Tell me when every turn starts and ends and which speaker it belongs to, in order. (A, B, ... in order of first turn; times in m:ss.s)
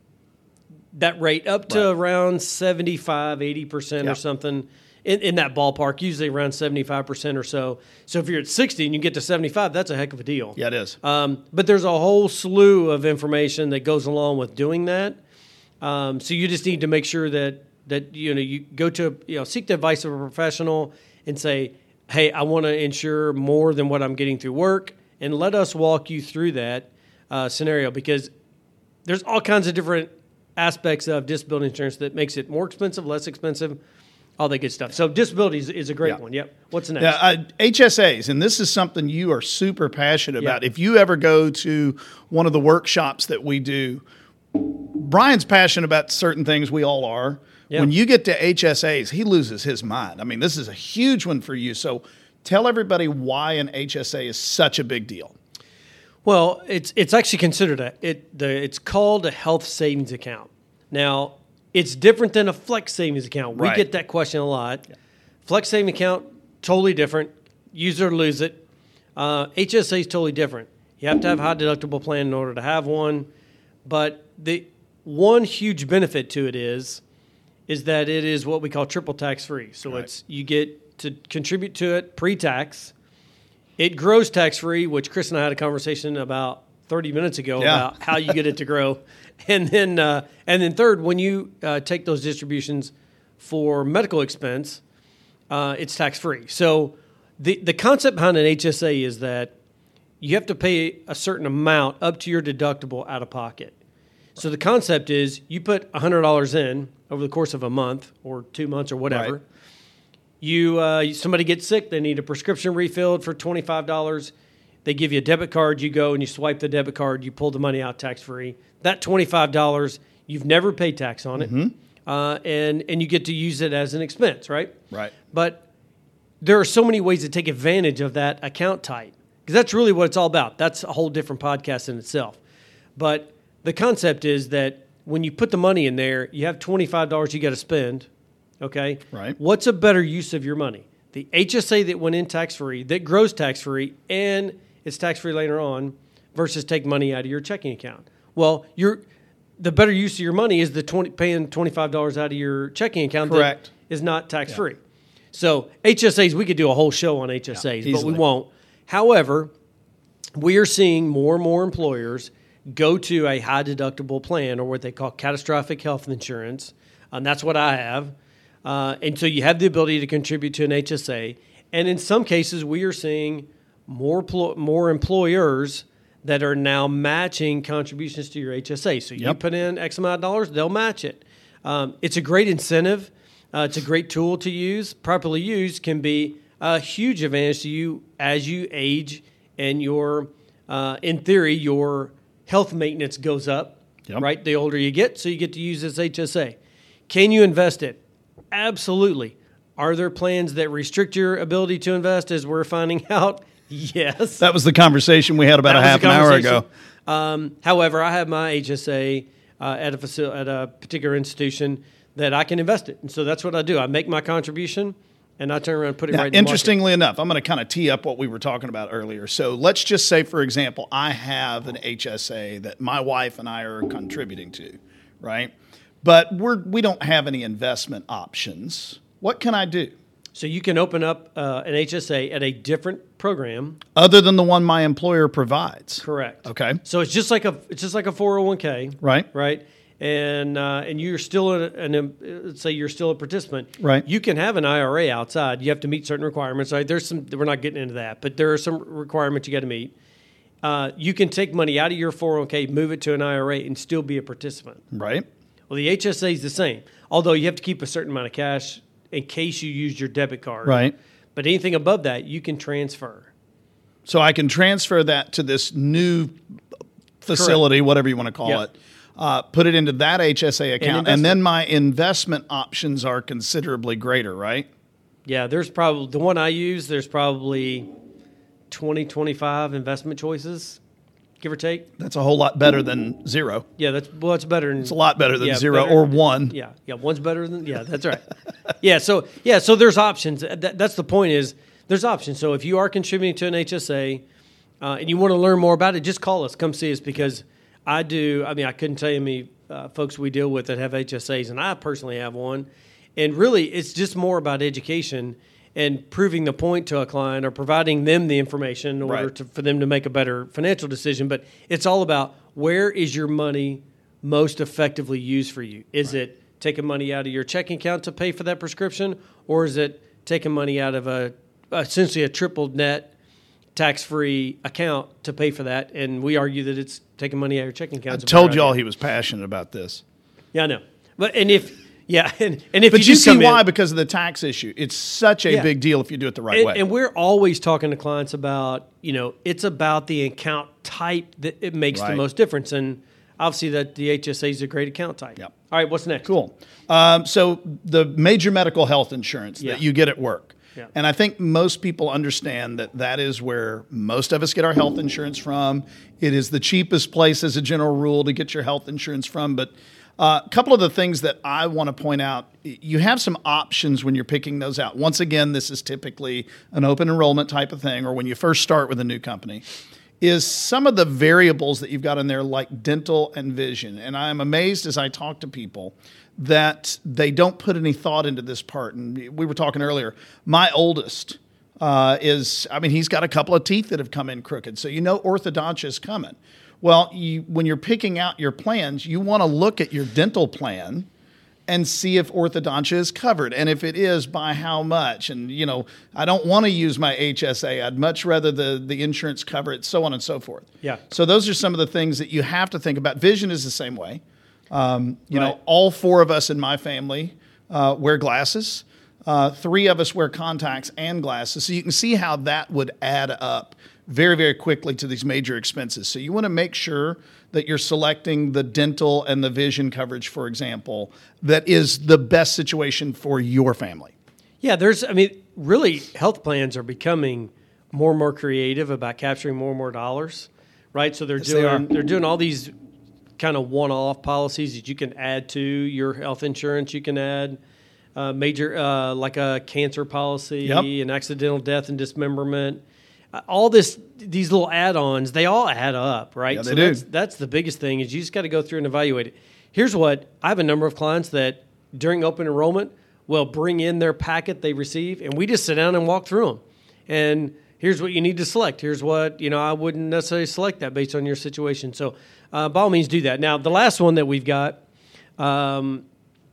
0:00.9-0:15.2 A
0:10.6-0:11.0 B
0:15.8-0:28.3 A
0:29.0-0:33.8 A
0:34.4-0:37.2 A
0:37.0-0:55.3 B
0:56.2-1:04.9 A
1:03.6-1:03.8 B
1:05.4-1:08.6 A
1:09.2-1:13.3 A
1:13.8-1:17.0 A
1:17.7-1:22.9 A
1:23.8-1:34.8 A
1:27.6-1:28.3 B
1:35.5-1:39.5 A
1:40.2-1:43.8 A
1:44.4-1:49.4 A
1:49.1-1:49.3 B
1:50.4-1:54.3 A
1:54.8-2:01.5 A
2:01.4-2:01.7 B
2:02.1-2:05.6 A
2:06.4-2:12.4 A
2:13.0-2:18.1 A
2:18.6-2:29.0 A
2:19.1-2:19.4 B
2:29.6-2:34.8 A
2:33.3-2:33.7 B
2:35.3-2:39.5 A
2:37.8-2:38.2 B
2:40.4-2:48.1 A
2:48.6-3:16.6 A
3:17.1-3:18.0 A
3:18.5-3:24.4 A
3:24.4-3:26.6 B
3:25.6-3:36.8 A
3:36.1-3:49.9 B
3:50.4-3:53.8 A
3:54.0-3:56.8 B
3:56.0-4:09.9 A
3:59.0-3:59.3 B
4:03.8-4:04.0 B
4:10.6-4:14.8 A
4:14.9-4:15.3 B
4:15.7-4:23.3 A
4:20.6-4:20.9 B
4:24.1-4:26.4 B
4:27.2-4:34.7 B
4:27.3-4:27.6 A
4:30.8-4:31.4 A
4:35.3-4:37.9 A
4:38.7-4:40.8 A
4:41.4-4:41.9 A
4:42.0-4:43.7 B
4:43.8-4:54.2 A
4:44.8-4:46.6 B
4:54.8-5:23.1 A
5:09.0-5:09.3 B
5:23.8-5:28.8 A
5:28.1-5:30.0 B
5:30.5-5:33.6 A
5:32.9-5:36.8 B
5:36.5-5:46.3 A
5:41.9-5:42.2 B
5:46.2-6:09.6 B
6:10.2-6:31.1 B
6:31.7-7:04.1 B
7:04.6-7:12.7 A
7:11.4-7:11.9 B
7:13.4-7:17.6 A
7:18.2-7:22.8 A
7:23.3-7:44.8 A
7:26.5-7:27.0 B
7:45.4-7:46.0 A